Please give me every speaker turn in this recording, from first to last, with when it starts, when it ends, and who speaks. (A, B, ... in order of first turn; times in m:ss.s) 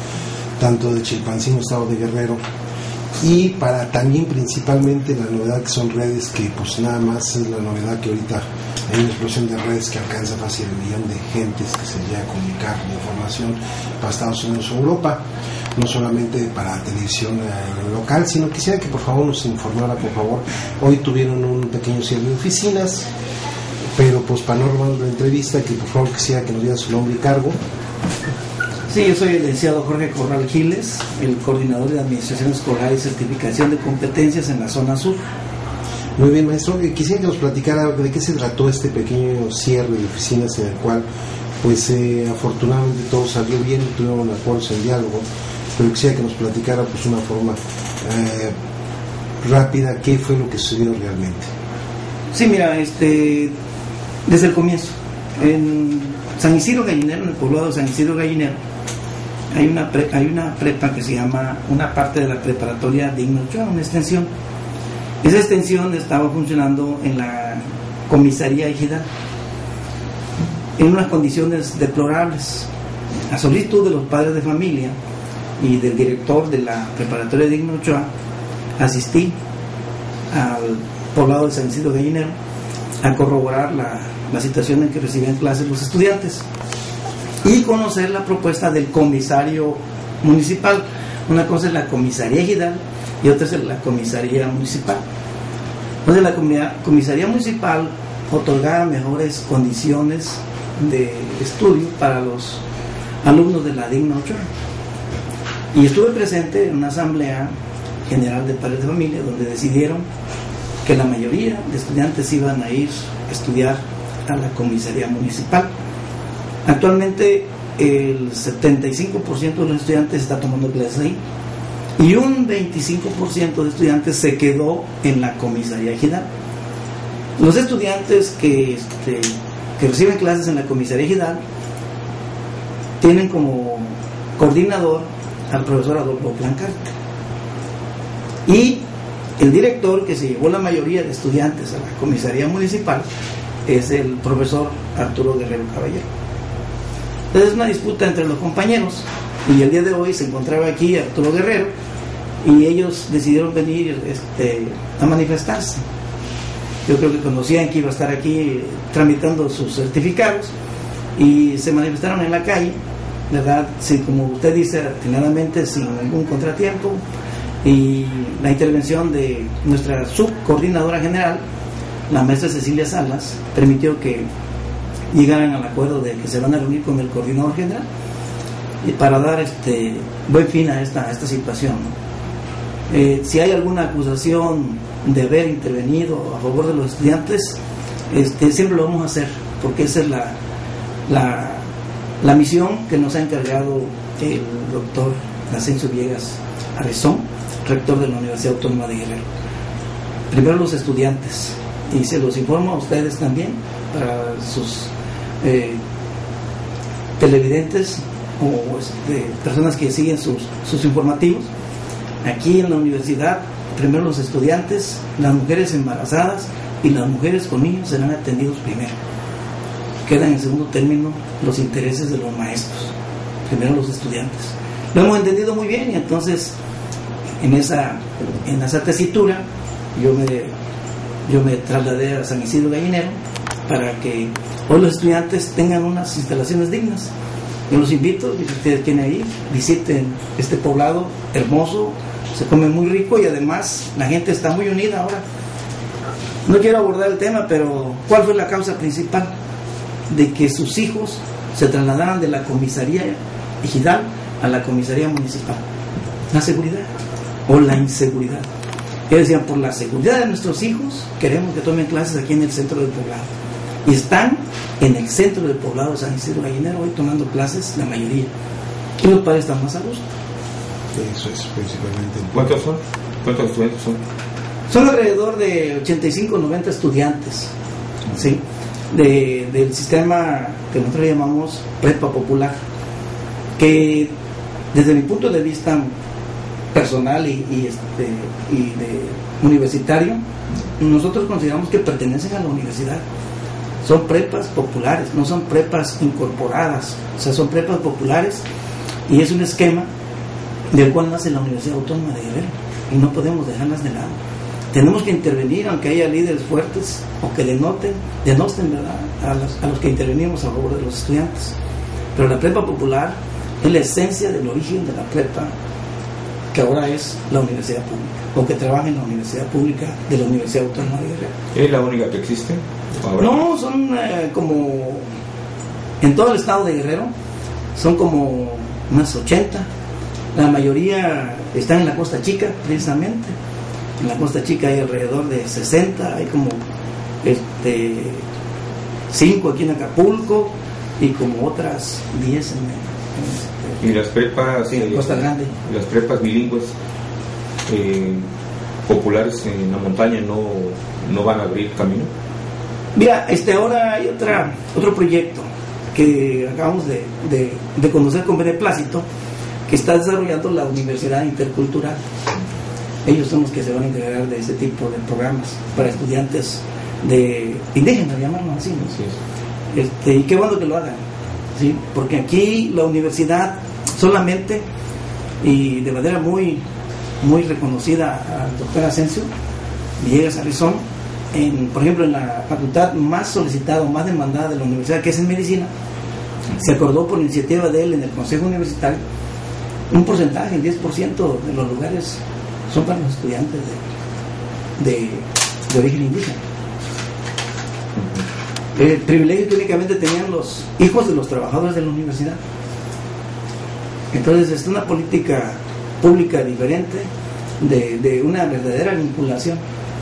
0:00.6-0:02.4 A
0:03.2-0:15.2 A
0:15.7-0:23.1 A
0:24.0-0:27.6 A
0:28.9-0:35.2 B
0:36.2-0:41.0 A
0:41.6-0:45.2 A
0:45.8-0:48.5 A
0:49.4-0:51.5 A
0:52.3-0:53.5 B
0:54.2-0:58.6 B
0:59.5-1:04.3 B
1:05.2-1:09.0 B
1:10.8-1:12.7 B
1:13.3-1:14.9 B
1:15.6-1:18.1 B
1:18.8-1:19.3 B
1:20.3-1:22.3 B
1:23.0-1:26.4 B
1:27.4-1:35.0 B
1:36.0-1:42.6 B
1:43.2-1:44.4 B
1:45.7-1:47.5 B
1:48.1-1:50.0 B
1:50.8-1:55.7 B
1:56.6-2:01.2 B
2:02.0-2:06.3 B
2:07.4-2:11.4 B
2:13.0-2:16.9 B
2:18.4-2:18.8 B
2:19.4-2:23.0 B
2:23.6-2:26.0 B
2:27.3-2:31.7 B
2:32.4-2:35.8 B
2:36.8-2:40.5 B
2:41.2-2:42.7 B
2:43.3-2:47.0 B
2:47.6-2:51.4 B
2:52.1-2:54.3 B
2:55.1-2:57.8 B
2:58.8-3:01.9 B
3:02.9-3:07.6 B
3:08.1-3:10.4 B
3:11.1-3:11.6 B
3:12.2-3:19.2 B
3:20.3-3:24.9 B
3:25.4-3:25.8 B
3:27.2-3:31.5 B
3:32.2-3:39.0 B
3:40.0-3:42.9 B
3:43.5-3:46.5 B
3:47.4-3:49.4 B
3:49.9-3:50.5 B
3:51.2-3:53.1 B
3:53.7-3:57.1 B
3:57.7-4:05.2 B
4:06.4-4:09.3 B
4:10.1-4:15.6 B
4:16.3-4:16.9 B
4:17.5-4:18.5 B
4:19.1-4:23.3 B
4:23.8-4:28.3 B
4:29.0-4:30.0 B
4:30.9-4:32.6 A
4:32.3-4:34.0 C
4:34.7-4:37.5 B
4:38.1-4:42.6 B
4:43.6-4:44.1 B
4:44.7-4:45.9 B
4:46.7-4:50.2 B
4:50.8-4:53.0 B
4:53.8-4:58.4 B
4:59.1-4:59.9 B
5:00.7-5:04.2 B
5:04.7-5:11.5 B
5:12.1-5:15.5 B
5:16.5-5:21.3 B
5:21.5-5:23.4 C
5:23.2-5:25.0 B
5:26.0-5:27.1 B
5:27.7-5:29.7 B
5:30.3-5:33.3 B
5:34.0-5:36.6 B
5:37.2-5:38.2 B
5:39.1-5:43.8 B
5:43.8-5:46.7 C
5:44.7-5:45.5 B
5:47.7-5:48.2 C
5:48.8-5:52.1 C
5:52.9-5:59.0 B
5:59.7-6:02.0 B
6:03.0-6:09.0 B
6:09.7-6:11.0 B
6:11.6-6:14.6 B
6:15.4-6:16.6 B
6:17.2-6:19.3 B
6:20.0-6:25.7 B
6:26.6-6:29.0 B
6:29.9-6:33.8 B
6:34.8-6:36.4 B
6:38.0-6:38.2 C
6:38.7-6:42.4 B
6:44.1-6:47.1 B
6:47.6-6:49.6 B